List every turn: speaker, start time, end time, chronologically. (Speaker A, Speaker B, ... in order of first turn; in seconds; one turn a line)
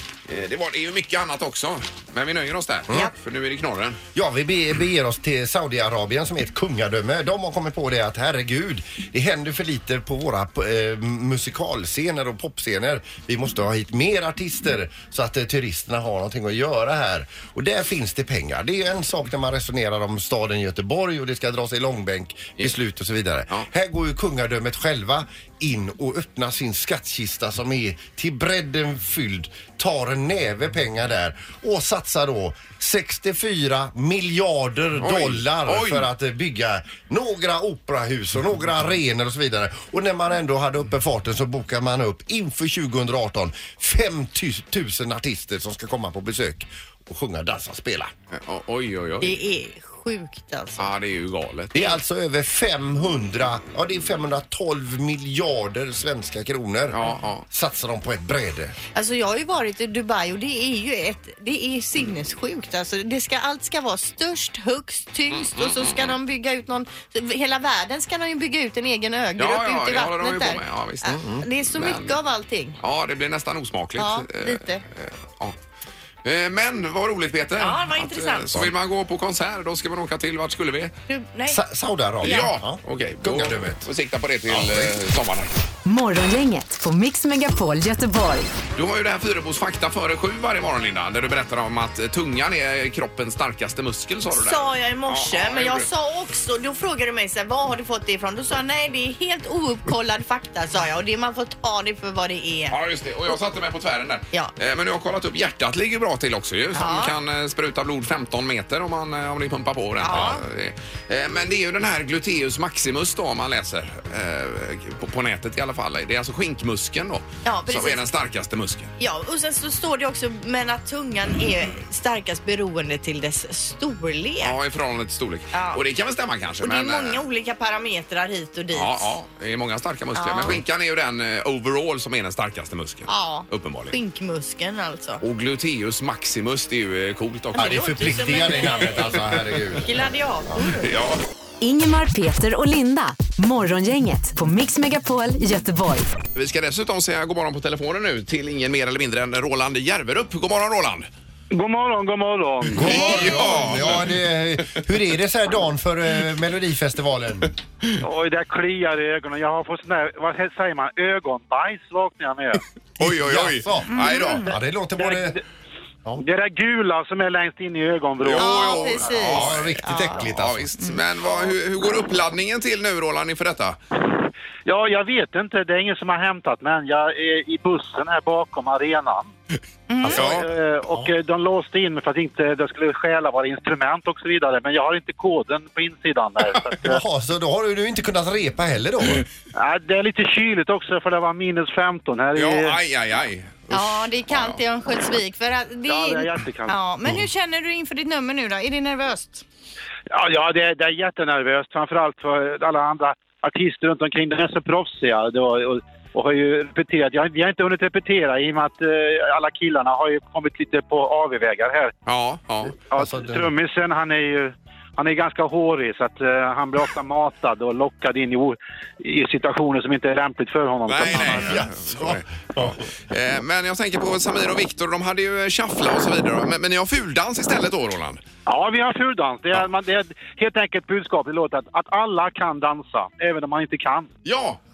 Speaker A: 0.2-4.0
Speaker B: 4.1-48.1
Speaker A: 35.0-36.0
Speaker A: 48.3-49.4
Speaker C: 49.2-50.9
Speaker A: 50.8-51.8
Speaker B: 51.7-58.8
Speaker A: 56.9-57.5
Speaker C: 58.9-72.8
Speaker A: 65.3-66.2
Speaker A: 69.4-72.2
Speaker B: 71.0-71.4
Speaker A: 72.8-75.5
Speaker C: 74.0-74.8
Speaker A: 76.2-80.9
Speaker C: 77.6-78.5
Speaker C: 81.1-81.6
Speaker B: 81.5-83.8
Speaker C: 82.2-82.5
Speaker A: 82.2-85.5
Speaker B: 84.5-84.9
Speaker D: 85.8-88.5
Speaker A: 88.8-95.9
Speaker C: 94.3-102.8
Speaker A: 102.7-118.9
Speaker C: 106.7-107.2
Speaker C: 110.0-110.4
Speaker C: 117.4-118.0
Speaker C: 119.0-124.5
Speaker A: 124.4-127.2
Speaker C: 125.5-125.8
Speaker C: 126.6-129.2
Speaker A: 128.7-133.9
Speaker C: 130.1-130.6
Speaker C: 133.1-135.2
Speaker A: 135.2-138.1
Speaker C: 137.5-139.0
Speaker B: 137.6-139.9
Speaker C: 139.8-140.9
Speaker A: 140.8-141.2
Speaker D: 141.6-146.1
Speaker A: 146.3-151.1
Speaker E: 151.5-153.6
Speaker B: 152.7-157.5
Speaker A: 152.8-154.1
Speaker E: 158.0-162.6
Speaker A: 163.0-164.4
Speaker B: 163.0-165.4
Speaker C: 163.9-164.5
Speaker E: 165.0-165.4
Speaker E: 166.2-169.1
Speaker A: 168.2-173.8
Speaker C: 168.3-170.2
Speaker B: 169.1-170.7
Speaker E: 174.7-179.3
Speaker C: 179.9-180.2
Speaker E: 180.1-187.0
Speaker A: 180.1-180.5
Speaker B: 186.8-189.2
Speaker E: 189.5-192.8
Speaker A: 192.3-194.6
Speaker C: 193.7-199.4
Speaker E: 195.9-196.8
Speaker E: 200.1-211.9
Speaker A: 212.1-212.7
Speaker E: 212.9-221.6
Speaker B: 212.9-213.5
Speaker A: 220.9-228.2
Speaker B: 221.1-222.8
Speaker E: 228.4-234.1
Speaker A: 234.2-234.6